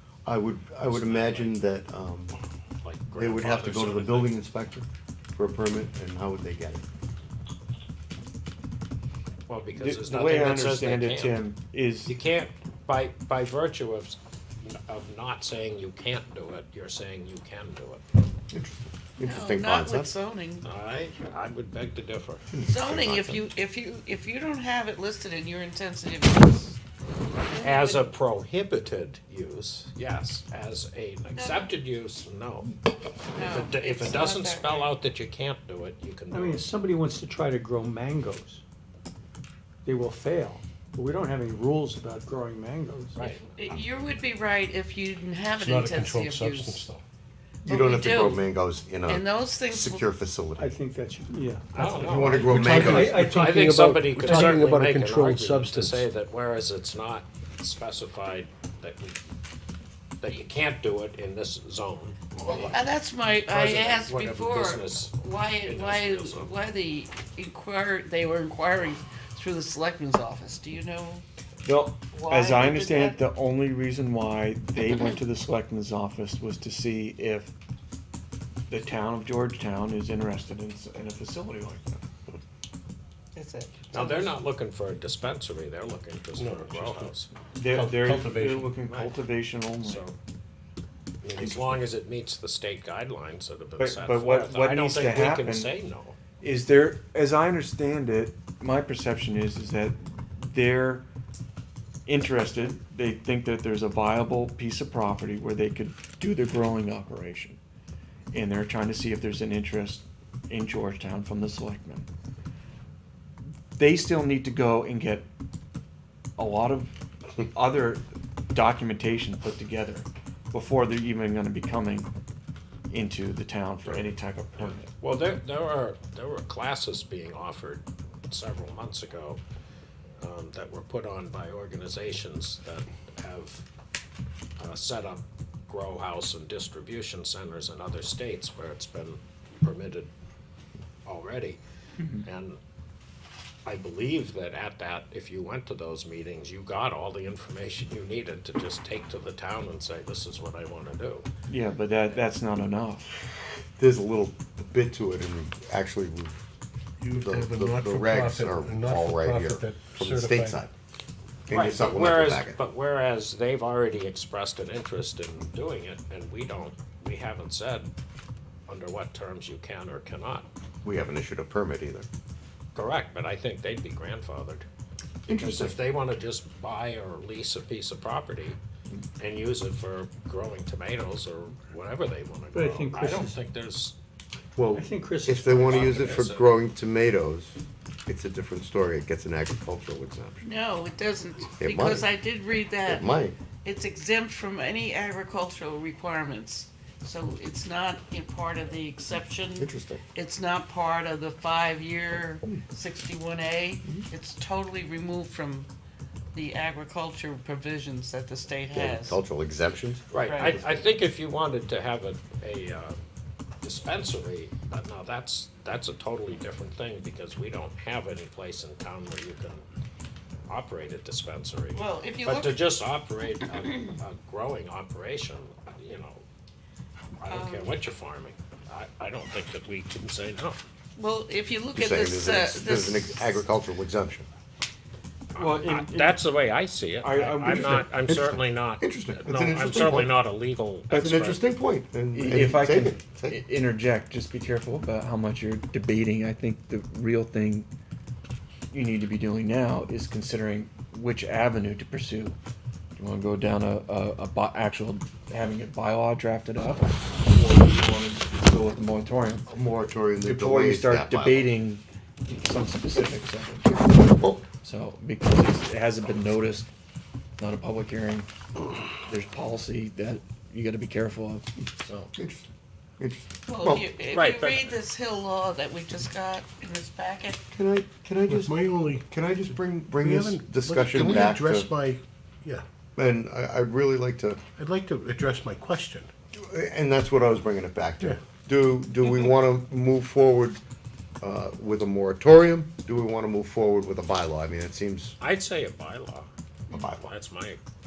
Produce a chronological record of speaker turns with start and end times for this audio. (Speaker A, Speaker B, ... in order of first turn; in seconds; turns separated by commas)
Speaker A: 0.2-2.3, Speaker B: 0.9-1.6, Speaker B: 2.8-4.4, Speaker A: 3.1-6.8, Speaker B: 9.5-11.4, Speaker C: 9.7-12.1, Speaker B: 12.1-18.0, Speaker A: 18.5-20.1, Speaker D: 19.2-20.6, Speaker B: 20.6-22.5, Speaker A: 22.5-23.4, Speaker D: 22.6-26.8, Speaker D: 27.4-28.1, Speaker B: 27.6-32.7, Speaker D: 31.3-31.7, Speaker D: 33.3-34.9, Speaker B: 33.4-36.6, Speaker E: 36.3-38.6, Speaker E: 39.8-43.2, Speaker B: 43.1-43.8, Speaker D: 43.2-46.9, Speaker F: 45.6-47.0, Speaker D: 47.6-48.5, Speaker A: 47.6-50.8, Speaker D: 49.0-50.0, Speaker E: 50.6-54.7, Speaker B: 51.7-59.2, Speaker A: 52.0-53.2, Speaker F: 52.6-56.0, Speaker B: 60.2-62.8, Speaker D: 62.4-71.2, Speaker B: 63.5-66.5, Speaker C: 71.6-77.5, Speaker D: 72.1-73.2, Speaker C: 78.7-82.0, Speaker D: 83.3-84.3, Speaker B: 83.9-87.3, Speaker F: 86.3-87.1, Speaker C: 87.5-90.0, Speaker F: 87.7-88.8, Speaker B: 89.8-90.2, Speaker B: 91.2-96.2, Speaker C: 93.8-95.7, Speaker C: 96.4-101.0, Speaker C: 102.0-107.6, Speaker C: 108.3-112.1, Speaker C: 113.8-115.2, Speaker C: 116.4-122.1, Speaker C: 122.9-124.9, Speaker B: 124.6-129.4, Speaker B: 130.2-133.6, Speaker B: 134.6-140.1, Speaker B: 141.1-141.6, Speaker B: 142.2-142.6, Speaker B: 143.7-151.3, Speaker C: 151.5-153.1, Speaker A: 153.8-156.4, Speaker F: 157.0-160.6, Speaker A: 157.1-160.7, Speaker A: 161.5-162.6, Speaker B: 161.5-167.9, Speaker B: 168.7-170.5, Speaker A: 170.8-172.1, Speaker B: 172.7-174.7, Speaker A: 175.3-175.8, Speaker B: 175.3-178.6, Speaker B: 179.2-183.9, Speaker E: 182.5-183.4, Speaker F: 184.6-184.8, Speaker E: 184.7-186.1, Speaker A: 185.2-187.6, Speaker B: 185.4-186.6, Speaker A: 188.1-190.4, Speaker D: 190.4-193.1, Speaker A: 191.6-192.1, Speaker A: 192.8-193.3, Speaker D: 193.6-205.7, Speaker A: 199.6-200.0, Speaker D: 206.3-209.2, Speaker A: 208.7-210.1, Speaker B: 210.1-213.0, Speaker D: 210.1-210.6, Speaker B: 213.6-219.6, Speaker B: 220.5-226.2, Speaker D: 221.7-222.7, Speaker B: 227.2-230.6, Speaker D: 227.3-227.7, Speaker D: 230.9-233.4, Speaker A: 231.7-234.3, Speaker B: 235.3-241.4, Speaker C: 235.3-236.2, Speaker C: 237.0-237.9, Speaker A: 237.7-240.2, Speaker A: 240.9-243.4, Speaker C: 242.1-247.7, Speaker C: 248.7-252.3, Speaker C: 253.0-259.5, Speaker A: 259.5-261.5, Speaker C: 260.2-263.8, Speaker A: 263.9-264.5, Speaker C: 264.5-266.7, Speaker C: 267.4-268.3, Speaker C: 269.1-272.1, Speaker A: 272.1-272.5, Speaker A: 273.0-273.8, Speaker D: 273.4-277.4, Speaker B: 274.1-274.8, Speaker A: 277.5-281.7, Speaker F: 278.3-282.6, Speaker A: 282.9-284.4, Speaker F: 284.6-286.1, Speaker A: 286.3-290.6, Speaker A: 291.2-295.2, Speaker B: 295.2-296.3, Speaker A: 296.7-297.1, Speaker B: 296.9-297.6